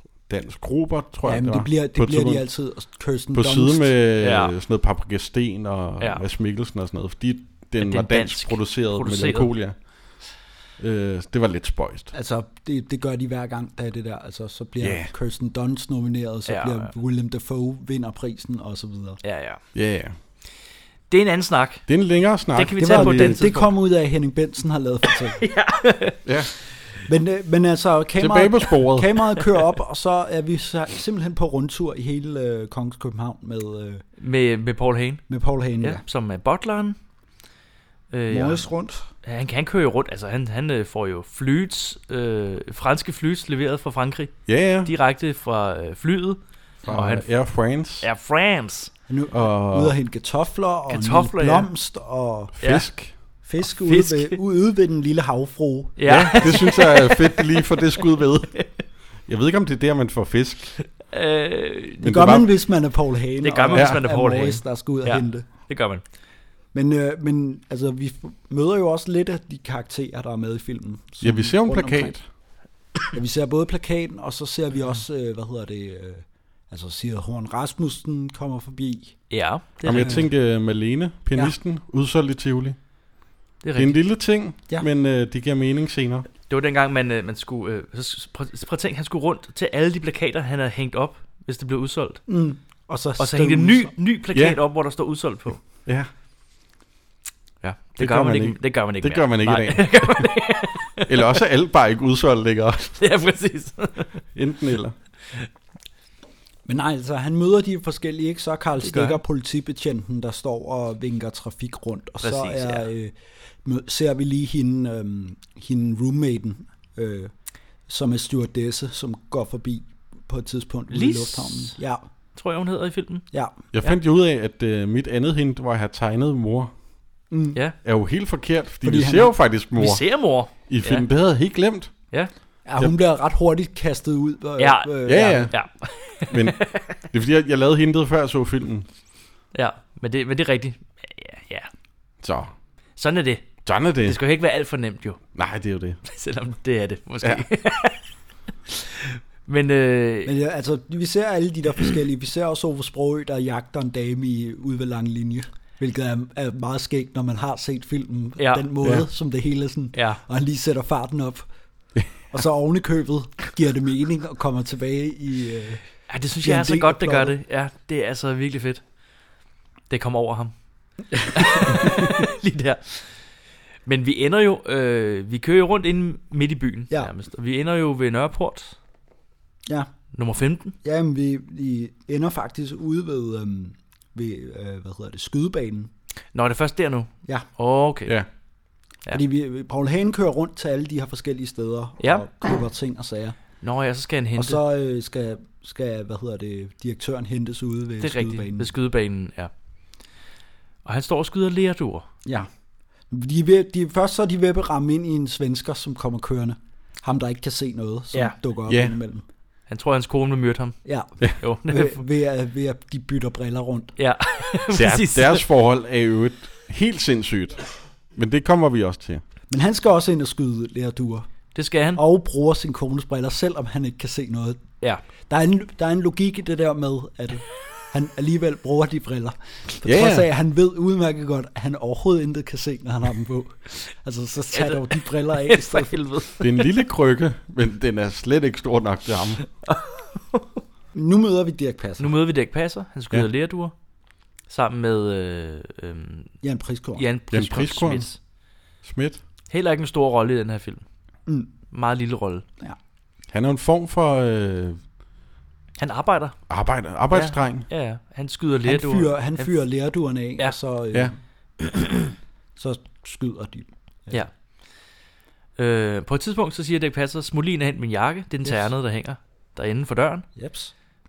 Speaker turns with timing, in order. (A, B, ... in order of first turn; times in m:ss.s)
0:00.3-0:02.5 A
0:01.2-0:03.9 B
0:03.3-0:12.1 A
0:04.2-0:04.5 C
0:07.8-0:09.5 C
0:12.1-0:19.2 B
0:14.8-0:15.1 A
0:16.5-0:16.9 C
0:19.2-0:19.6 C
0:19.7-0:20.2 A
0:21.1-0:21.9 C
0:21.9-0:23.6 A
0:22.4-0:23.7 C
0:22.8-0:25.4 B
0:25.4-0:26.2 C
0:26.2-0:26.5 A
0:27.1-0:34.0 B
0:28.2-0:29.2 A
0:34.2-0:37.0 C
0:35.3-0:36.0 B
0:38.1-0:38.7 C
0:38.3-0:39.1 B
0:39.2-0:47.3 C
0:44.5-0:44.9 A
0:46.8-0:48.1 A
0:48.0-0:48.9 C
0:49.1-0:52.6 B
0:49.3-0:50.0 A
0:50.9-0:51.7 C
0:52.6-0:53.2 A
0:52.6-0:52.9 C
0:53.4-0:56.5 B
0:53.8-0:54.4 C
0:56.0-0:57.5 C
0:56.1-0:58.7 A
0:59.2-1:00.8 A
1:01.0-1:02.1 C
1:02.0-1:02.5 A
1:02.0-1:05.5 B
1:03.4-1:06.0 C
1:03.7-1:04.0 A
1:06.7-1:12.2 B
1:11.2-1:12.2 A
1:13.1-1:19.3 B
1:19.3-1:20.2 C
1:19.8-1:22.8 A
1:20.0-1:20.3 B
1:23.6-1:24.0 C
1:23.7-1:26.2 A
1:26.5-1:32.2 C
1:32.3-1:34.0 B
1:33.2-1:35.6 C
1:34.3-1:34.6 A
1:37.6-1:41.4 C
1:38.0-1:40.5 A
1:41.0-1:43.0 A
1:43.0-1:44.2 C
1:44.3-1:45.0 A
1:46.7-1:53.1 B
1:48.8-1:49.2 C
1:52.2-1:52.9 C
1:53.6-1:57.3 B
1:57.9-2:02.0 B
2:00.9-2:01.8 C
2:02.4-2:03.3 C
2:03.7-2:06.7 A
2:07.3-2:07.6 B
2:07.8-2:12.0 A
2:08.8-2:09.4 B
2:09.8-2:11.0 C
2:12.7-2:15.5 B
2:14.6-2:17.0 C
2:15.1-2:15.6 A
2:16.2-2:18.9 A
2:19.5-2:21.7 C
2:22.2-2:22.5 A
2:23.0-2:25.2 C
2:23.6-2:24.2 A
2:25.4-2:26.0 A
2:26.0-2:28.0 C
2:28.7-2:30.3 C
2:30.2-2:41.4 B
2:38.4-2:38.7 C
2:39.9-2:40.2 C
2:42.3-2:47.4 B
2:46.1-2:48.8 C
2:49.9-2:50.5 C
2:51.1-2:53.3 C
2:53.8-2:58.8 C
3:00.1-3:00.8 C
3:00.8-3:05.9 B
3:06.3-3:08.2 C
3:09.1-3:13.4 B
3:12.0-3:12.2 C
3:13.6-3:14.6 C
3:14.4-3:18.7 B
3:18.0-3:19.5 C
3:20.8-3:22.1 C
3:23.1-3:29.2 B
3:28.7-3:29.0 A
3:29.7-3:30.8 C
3:30.8-3:33.9 B
3:31.4-3:32.0 C
3:34.0-3:35.4 C
3:34.7-3:39.2 A
3:39.5-3:41.3 B
3:41.5-3:42.0 C
3:41.9-3:44.6 B
3:45.3-3:56.0 B
3:49.8-3:50.3 A
3:54.5-3:56.7 C
3:56.4-3:59.4 A
3:59.6-4:00.6 C
4:00.9-4:02.2 B
4:02.0-4:03.7 C
4:04.5-4:06.4 C
4:06.4-4:07.0 B
4:07.0-4:08.2 C
4:07.3-4:08.1 A
4:08.8-4:09.2 A
4:09.5-4:10.8 C
4:11.7-4:12.4 C
4:13.3-4:14.8 A
4:15.8-4:16.4 C
4:16.5-4:17.7 A
4:17.1-4:19.5 C
4:18.7-4:21.2 B
4:22.6-4:24.2 B
4:25.6-4:30.3 C
4:30.4-4:30.7 B